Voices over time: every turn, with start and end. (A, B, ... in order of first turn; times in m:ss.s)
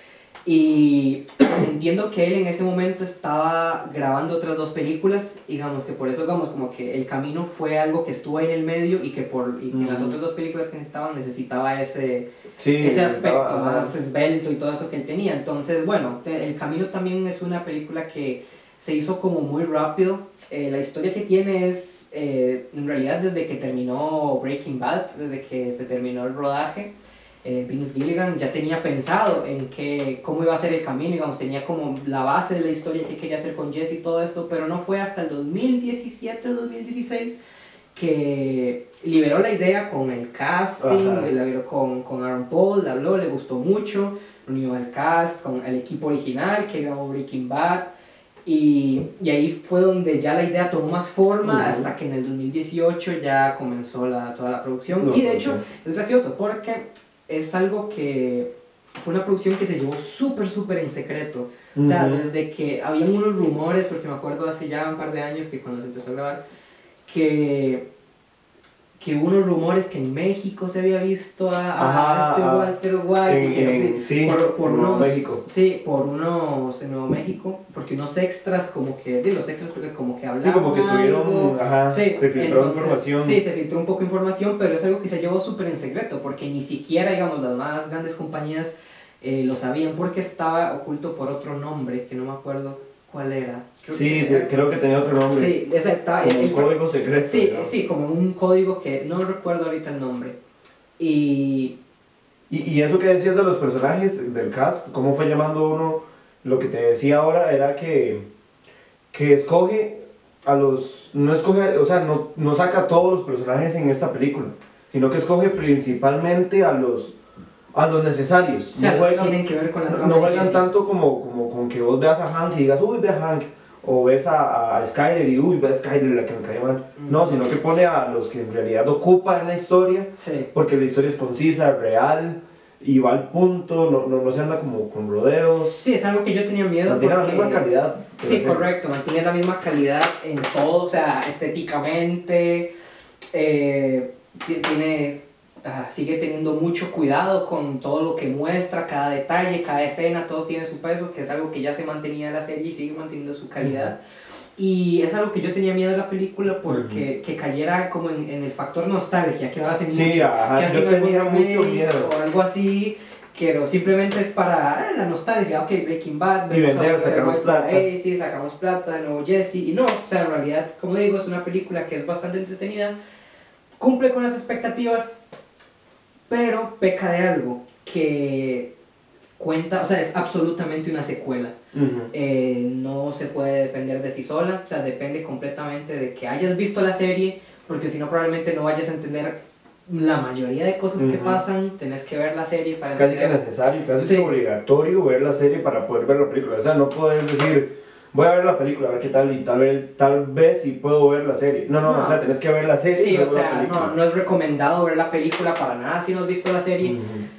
0:00.4-0:26.9 A
0:09.7-0:10.2 B
0:12.6-0:13.9 B
0:27.4-0:37.4 A
0:37.9-0:47.9 A
0:40.8-0:41.3 B
0:48.4-1:06.4 A
0:51.4-0:51.9 B
0:55.0-0:55.6 B
1:01.7-1:02.2 B
1:07.0-1:07.8 A
1:09.0-1:34.5 A
1:11.8-1:12.7 B
1:13.2-1:15.4 B
1:20.4-1:23.4 B
1:33.9-1:35.6 B
1:35.3-1:40.4 A
1:36.2-1:37.7 B
1:41.0-1:41.8 A
1:42.5-1:48.3 B
1:49.1-1:57.2 B
1:57.7-2:15.8 B
1:58.7-2:00.6 A
2:07.0-2:07.3 A
2:10.2-2:10.5 A
2:15.7-2:22.7 A
2:16.8-2:18.7 B
2:23.3-2:34.0 A
2:33.6-2:33.9 B
2:34.6-2:53.0 A
2:36.7-2:37.0 B
2:39.9-2:42.1 B
2:46.5-2:47.8 B
2:53.8-2:55.2 A
2:56.3-2:58.7 A
2:59.4-3:01.6 A
3:01.7-3:02.1 B
3:02.1-3:13.4 A
3:11.0-3:11.4 B
3:12.9-3:23.9 B
3:14.0-3:14.3 A
3:21.8-3:22.2 A
3:22.9-3:27.0 A
3:26.8-3:27.3 B